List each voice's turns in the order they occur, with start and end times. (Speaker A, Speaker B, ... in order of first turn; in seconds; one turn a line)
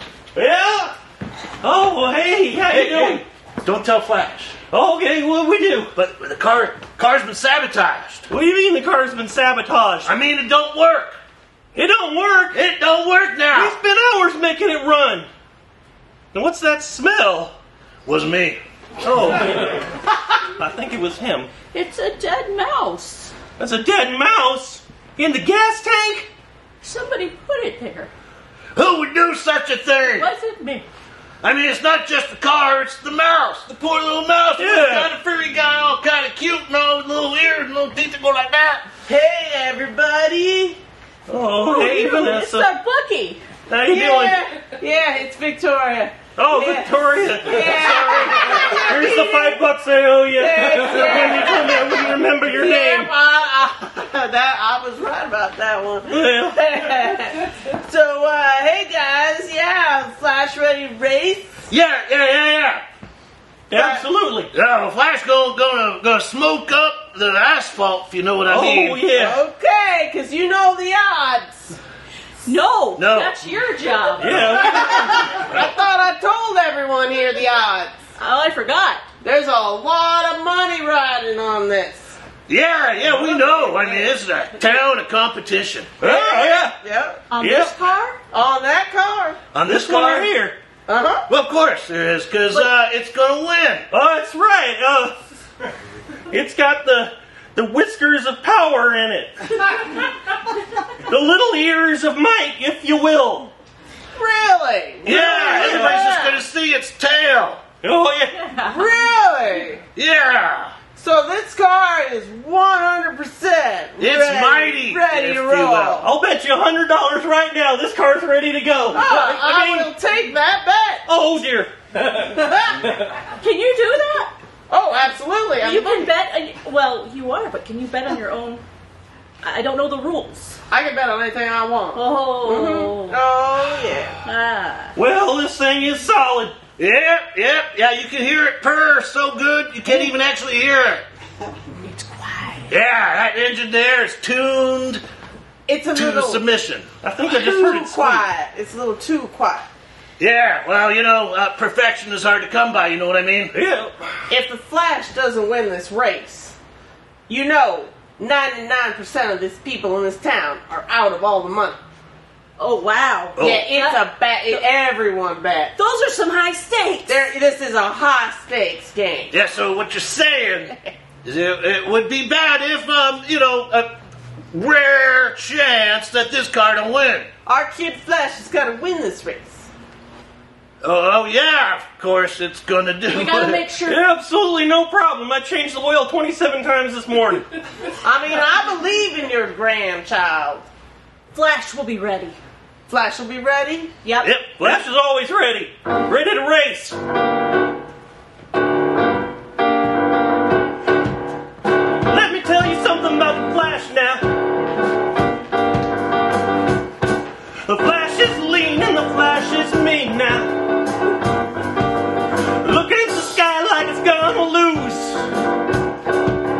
Speaker A: 0.3-0.9
Speaker A: 1.6-3.2
Speaker B: 2.7-4.6
Speaker A: 4.7-5.9
Speaker B: 6.0-8.3
Speaker A: 8.3-10.1
Speaker B: 10.0-11.2
Speaker A: 11.7-12.6
Speaker B: 12.5-13.8
Speaker A: 13.5-15.3
Speaker A: 16.3-17.5
Speaker B: 18.0-18.6
Speaker A: 19.0-21.5
Speaker C: 21.6-23.4
Speaker A: 23.6-26.3
Speaker C: 26.8-28.1
Speaker B: 28.7-30.3
Speaker C: 30.1-30.9
Speaker B: 31.4-38.8
Speaker A: 34.6-35.1
Speaker D: 39.0-40.8
Speaker A: 41.3-42.7
Speaker C: 41.6-43.4
Speaker A: 43.7-44.4
Speaker D: 43.9-49.5
Speaker A: 46.4-53.1
Speaker C: 48.3-48.8
Speaker D: 50.3-61.7
Speaker A: 56.1-56.6
Speaker B: 61.7-62.8
Speaker A: 63.7-64.5
Speaker D: 63.7-64.0
Speaker B: 64.5-69.0
Speaker A: 68.5-69.4
Speaker D: 69.1-71.8
Speaker C: 72.4-74.8
Speaker B: 73.0-73.4
Speaker A: 74.2-75.5
Speaker D: 74.4-78.0
Speaker C: 78.2-79.0
Speaker D: 79.2-82.2
Speaker B: 82.5-86.0
Speaker D: 83.4-83.8
Speaker A: 86.0-86.8
Speaker D: 86.0-87.2
Speaker C: 87.3-88.2
Speaker A: 87.4-87.8
Speaker D: 88.3-89.4
Speaker B: 89.5-90.3
Speaker A: 89.6-90.6
Speaker D: 90.8-91.3
Speaker B: 91.3-93.8
Speaker A: 93.9-95.2
Speaker A: 96.3-100.1
Speaker A: 100.9-103.5
Speaker D: 104.1-106.4
Speaker B: 105.0-107.6
Speaker A: 105.4-106.0
Speaker A: 107.8-108.4
Speaker D: 108.5-109.8
Speaker B: 109.9-110.7
Speaker D: 111.0-116.1
Speaker B: 114.0-116.0
Speaker A: 116.0-119.9
Speaker D: 118.9-121.0
Speaker A: 121.0-122.3
Speaker D: 122.2-123.0
Speaker C: 123.4-124.3
Speaker D: 124.7-126.1
Speaker C: 125.6-128.6
Speaker C: 129.4-130.6
Speaker D: 130.7-134.2
Speaker C: 131.9-133.2
Speaker C: 134.2-134.9
Speaker A: 134.9-136.6
Speaker B: 136.8-141.0
Speaker C: 141.8-142.7
Speaker B: 142.7-145.0
Speaker D: 145.7-146.4
Speaker B: 145.9-146.9
Speaker A: 147.0-148.2
Speaker D: 147.2-149.7
Speaker B: 150.2-153.5
Speaker A: 153.5-153.9
Speaker D: 154.3-156.6
Speaker D: 157.3-161.8
Speaker C: 162.6-164.7
Speaker B: 163.4-163.7
Speaker D: 163.4-165.8
Speaker C: 165.8-167.2
Speaker D: 167.1-169.3
Speaker B: 169.3-173.9
Speaker B: 174.5-177.3
Speaker D: 177.4-179.7
Speaker B: 180.8-183.6
Speaker C: 183.1-184.0
Speaker A: 183.8-187.4
Speaker D: 188.0-190.7
Speaker C: 191.3-192.3
Speaker D: 192.9-193.9
Speaker C: 194.0-194.4
Speaker A: 194.2-197.0
Speaker A: 202.1-204.2
Speaker A: 207.6-210.5
Speaker A: 212.6-215.3